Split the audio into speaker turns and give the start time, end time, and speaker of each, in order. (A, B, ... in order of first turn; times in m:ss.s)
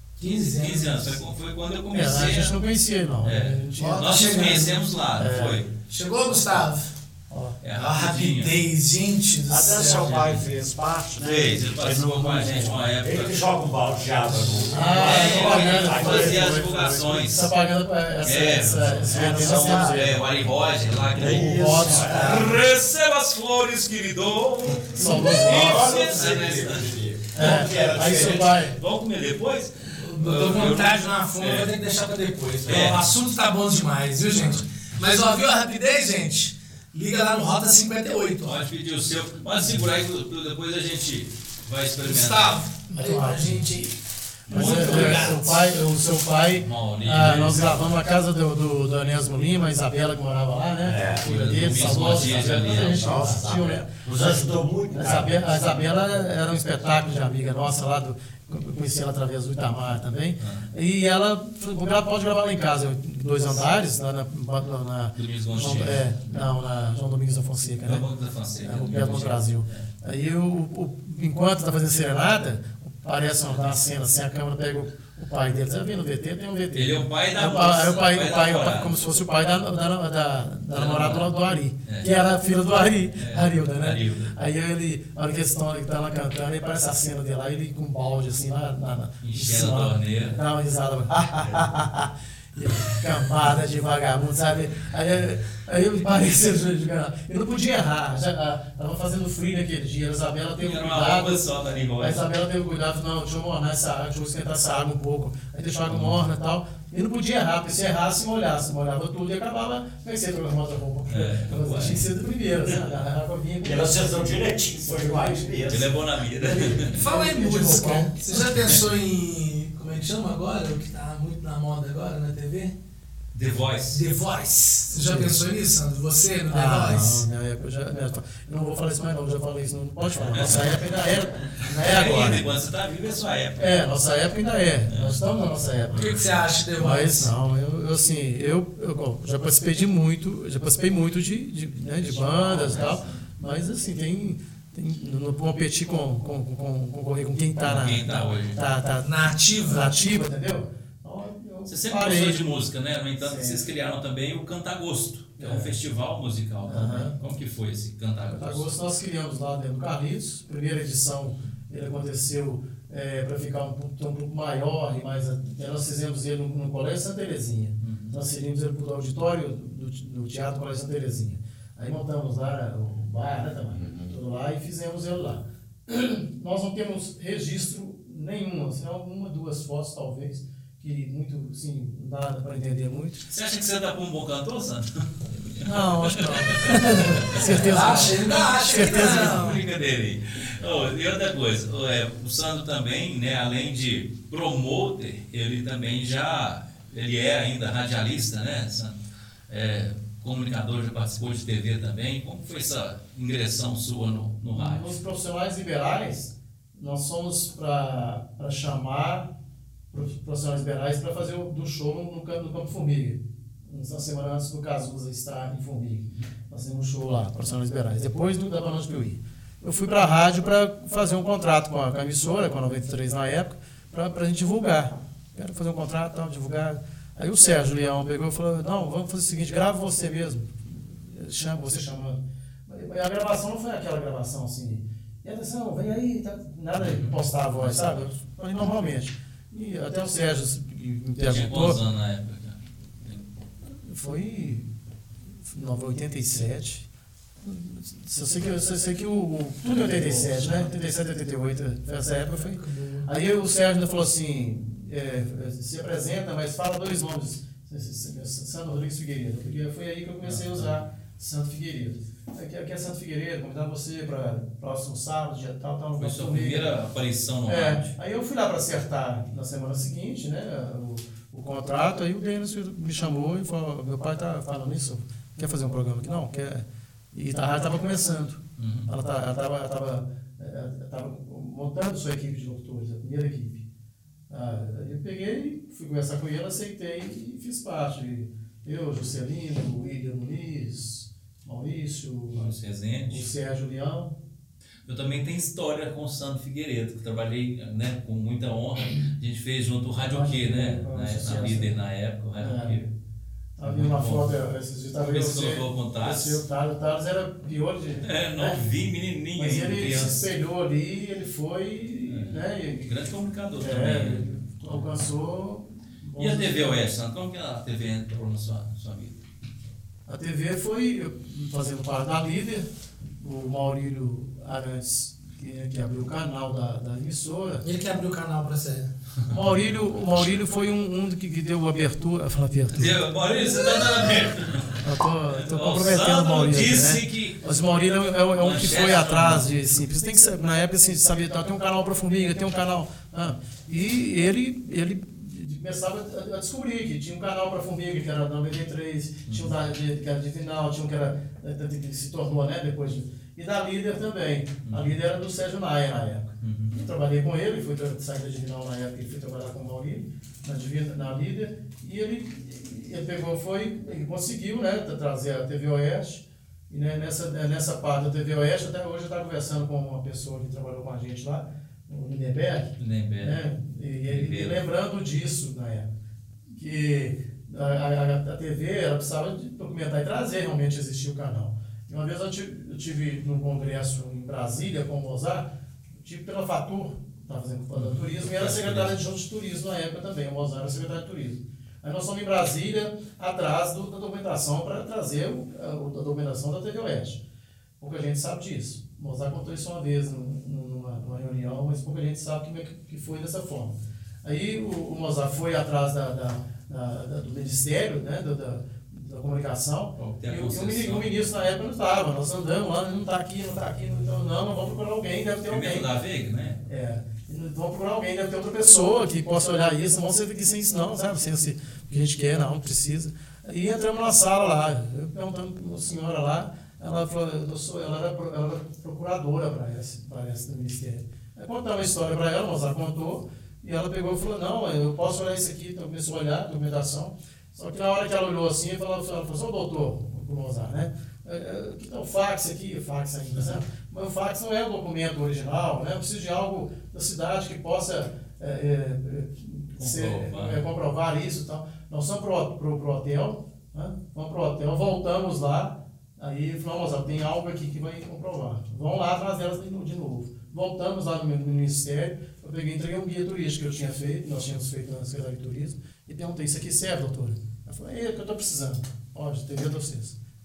0:00.2-0:01.2 A
0:00.2-0:02.6 B
0:01.9-0:05.6 C
0:03.2-0:05.7 B
0:03.8-0:04.8 A
0:05.9-0:06.9 A
0:07.3-0:07.6 C
0:07.6-0:08.6 B
0:07.8-0:10.3 A
0:09.5-0:16.6 D
0:09.9-0:10.4 B
0:11.2-0:13.5 B
0:14.3-0:17.5 B
0:14.7-0:20.2 C
0:18.2-0:31.7 B
0:18.9-0:20.1 D
0:21.1-0:22.6 D
0:21.2-0:22.6 C
0:24.9-0:25.9 C
0:25.0-0:26.6 A
0:25.2-0:28.5 D
0:27.4-0:28.8 C
0:29.9-0:38.6 A
0:32.7-0:33.1 B
0:32.7-0:33.0 D
0:38.4-0:42.6 B
0:42.0-0:44.0 A
0:42.9-0:43.6 C
0:44.5-1:08.0 C
0:44.5-0:45.4 B
0:44.5-0:45.3 A
0:44.6-0:45.6 D
0:46.6-0:47.9 B
0:50.8-0:56.2 D
0:51.2-0:53.2 B
1:00.4-1:00.7 B
1:05.2-1:06.5 B
1:07.8-1:09.9 B
1:08.6-1:41.5 C
1:16.8-1:18.9 B
1:20.7-1:21.3 B
1:23.2-1:24.4 B
1:29.2-1:30.4 B
1:40.6-1:42.2 B
1:42.0-1:55.8 C
1:45.9-1:46.2 B
1:51.1-1:52.0 B
1:53.6-1:55.9 D
1:55.7-1:57.0 B
1:56.4-1:58.7 C
1:56.9-2:02.7 A
2:03.3-2:04.1 B
2:03.9-2:07.2 A
2:04.9-2:05.4 C
2:06.5-2:12.4 C
2:10.2-2:10.8 B
2:11.7-2:13.9 B
2:13.6-2:16.1 C
2:14.9-2:15.2 B
2:16.0-2:17.3 A
2:16.8-2:29.1 C
2:22.0-2:23.2 D
2:27.6-2:28.6 B
2:29.0-2:29.9 A
2:29.6-2:32.7 C
2:31.7-2:38.8 B
2:33.2-2:33.6 C
2:35.4-2:35.7 C
2:36.6-2:37.2 C
2:38.3-3:03.2 C
2:47.8-2:48.2 B
2:53.7-2:54.2 D
3:03.3-3:19.0 B
3:05.6-3:09.5 C
3:07.4-3:09.6 A
3:19.5-3:25.0 B
3:24.6-3:29.3 C
3:29.9-4:01.8 C
3:56.8-3:58.1 B
4:01.3-4:03.2 B
4:03.8-4:04.7 C
4:05.4-4:06.8 C
4:07.4-4:26.8 C
4:10.1-4:10.7 B
4:12.3-4:13.1 A
4:20.2-4:20.8 B
4:26.0-4:27.9 B
4:27.5-4:43.6 C
4:38.6-4:38.9 B
4:44.3-4:52.5 C
4:52.4-4:53.3 B
4:53.1-4:54.1 C
4:54.9-5:02.9 B
4:58.8-4:59.1 C
5:00.1-5:01.8 C
5:02.4-5:02.8 C
5:03.6-5:08.6 C
5:03.6-5:04.3 B
5:05.0-5:06.4 B
5:08.0-5:10.2 B
5:09.4-5:12.9 C
5:12.1-5:14.8 B
5:13.6-5:16.8 C
5:16.2-5:19.2 B
5:20.1-5:22.7 C
5:23.2-5:27.6 C
5:27.6-5:28.9 A
5:29.3-5:33.0 C
5:32.7-5:37.6 B
5:34.8-6:15.9 C
5:38.3-5:39.5 B
5:49.3-5:49.5 B
5:56.4-5:56.8 B
6:12.8-6:13.4 B
6:14.1-6:14.6 B
6:16.5-6:25.5 C
6:26.0-6:37.2 C
6:27.7-6:28.9 B
6:37.8-6:55.9 C
6:50.0-6:51.1 B
6:55.5-6:56.6 B
6:56.6-7:50.2 C
7:29.8-7:30.6 B